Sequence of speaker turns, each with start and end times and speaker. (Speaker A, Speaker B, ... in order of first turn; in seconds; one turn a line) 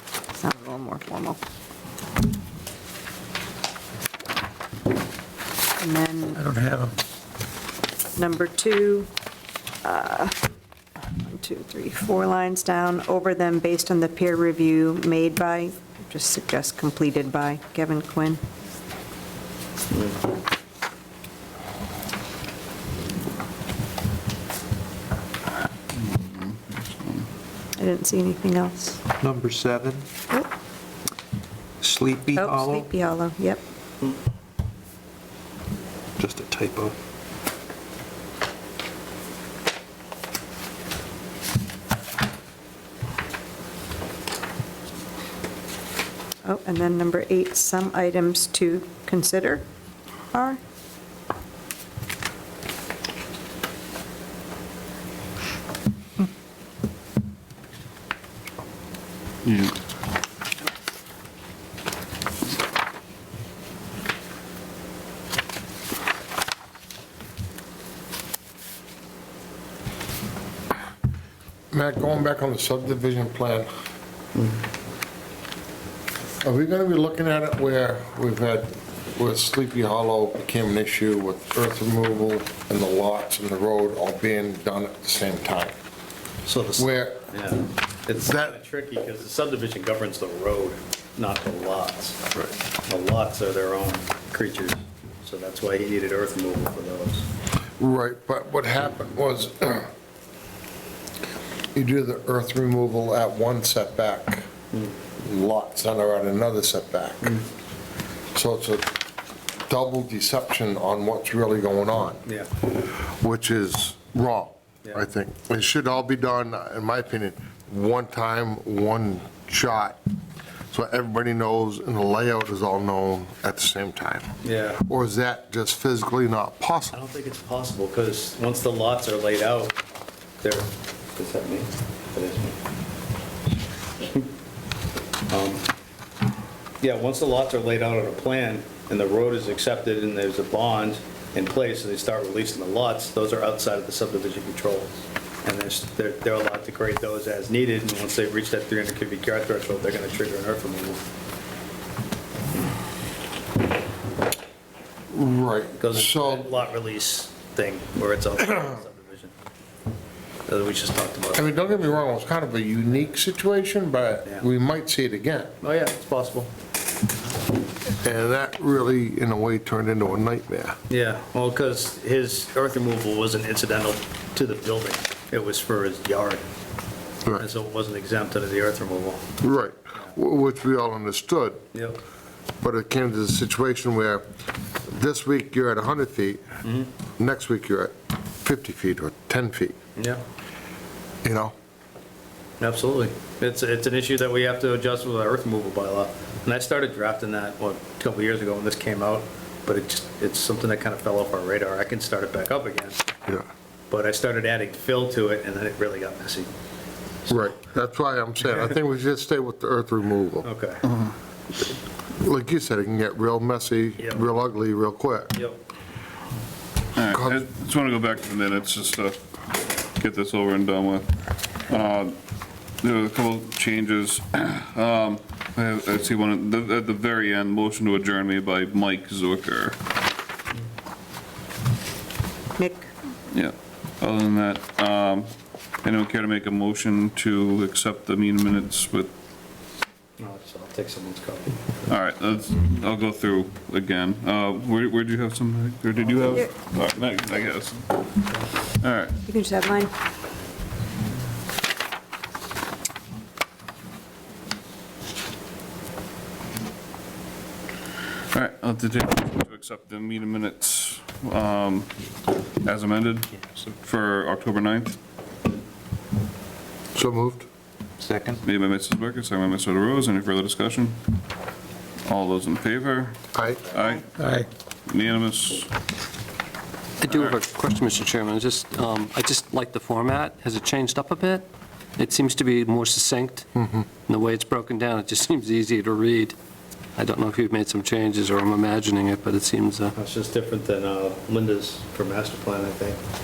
Speaker A: 0.3-1.4
Speaker A: 5.8-6.5
Speaker B: 6.4-6.9
Speaker A: 8.2-9.1
Speaker A: 9.8-10.4
Speaker A: 11.1-18.4
Speaker C: 19.9-20.2
Speaker D: 25.9-27.3
Speaker A: 27.8-29.0
Speaker B: 29.2-30.1
Speaker B: 31.8-32.9
Speaker A: 32.3-33.6
Speaker B: 36.2-36.9
Speaker A: 46.4-49.6
Speaker A: 50.3-50.6
Speaker D: 59.4-59.8
Speaker E: 71.7-73.7
Speaker C: 74.3-74.6
Speaker E: 76.4-85.7
Speaker C: 86.5-92.3
Speaker E: 86.8-87.3
Speaker E: 88.2-88.5
Speaker C: 92.9-97.3
Speaker E: 97.8-99.9
Speaker E: 101.7-104.5
Speaker E: 105.2-107.4
Speaker E: 108.3-109.0
Speaker E: 109.7-112.2
Speaker E: 112.8-120.0
Speaker E: 120.7-127.0
Speaker C: 124.4-124.8
Speaker C: 126.9-129.8
Speaker C: 130.4-132.6
Speaker C: 135.3-135.7
Speaker C: 136.8-144.9
Speaker C: 145.4-151.1
Speaker E: 155.1-156.5
Speaker C: 155.8-159.3
Speaker C: 160.5-161.9
Speaker E: 161.3-165.5
Speaker C: 165.6-166.5
Speaker E: 168.0-170.8
Speaker C: 170.9-176.4
Speaker C: 177.4-179.3
Speaker E: 179.4-181.6
Speaker C: 181.7-182.0
Speaker E: 182.6-184.2
Speaker E: 184.8-186.4
Speaker C: 186.6-186.9
Speaker E: 187.2-189.8
Speaker C: 190.0-190.2
Speaker E: 191.2-191.5
Speaker C: 192.6-203.1
Speaker C: 203.9-206.5
Speaker E: 207.3-210.5
Speaker C: 210.4-210.8
Speaker E: 212.1-215.4
Speaker C: 214.0-214.2
Speaker D: 216.9-219.2
Speaker E: 217.1-217.4
Speaker D: 220.0-221.1
Speaker D: 221.7-222.2
Speaker D: 222.8-229.8
Speaker A: 232.6-232.9
Speaker D: 233.3-235.3
Speaker D: 235.8-239.1
Speaker C: 240.2-241.8
Speaker D: 241.9-247.9
Speaker D: 248.8-249.2
Speaker A: 249.2-249.9
Speaker D: 258.3-261.9
Speaker D: 262.6-265.0
Speaker E: 266.9-267.4
Speaker B: 268.0-268.4
Speaker D: 268.4-271.0
Speaker D: 272.1-274.1
Speaker E: 273.3-273.6
Speaker B: 274.2-274.5
Speaker D: 274.9-275.7
Speaker F: 277.0-281.5
Speaker D: 277.1-277.3
Speaker F: 282.0-283.4
Speaker F: 284.1-286.4
Speaker F: 287.0-289.9
Speaker C: 289.9-293.0